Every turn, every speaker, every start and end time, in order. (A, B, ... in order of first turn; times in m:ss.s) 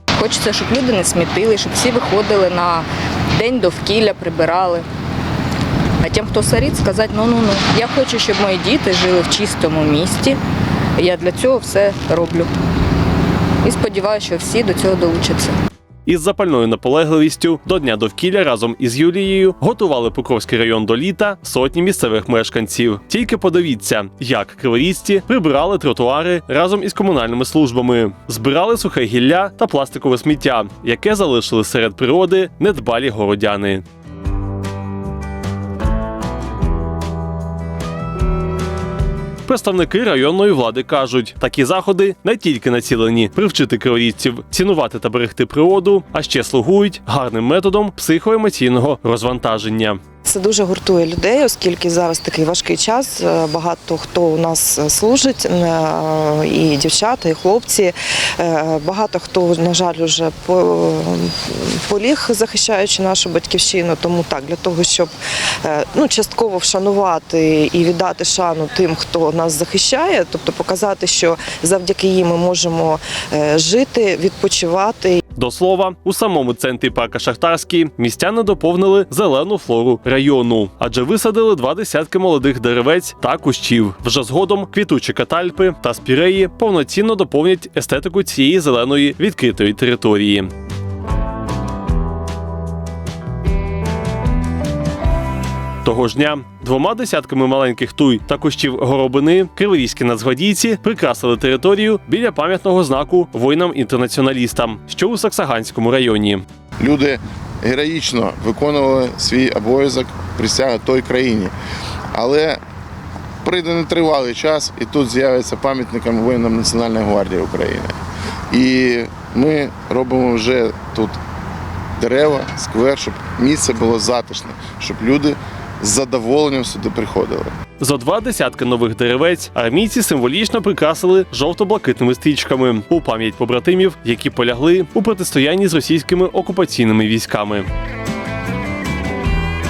0:00.2-0:04.8 A
0:06.0-0:10.4 A
0:11.0-0:12.5 A
0:13.6-0:15.5 A
0:16.0-0:33.8 B
0:39.4-0:50.0 B
0:50.2-1:05.1 C
1:05.6-1:15.2 C
1:15.4-1:30.5 B
1:35.8-1:46.4 B
1:46.8-1:51.5 D
1:52.1-1:52.6 D
1:53.4-1:58.0 D
1:58.5-2:01.2 D
2:02.0-2:07.5 D
2:07.8-2:17.7 B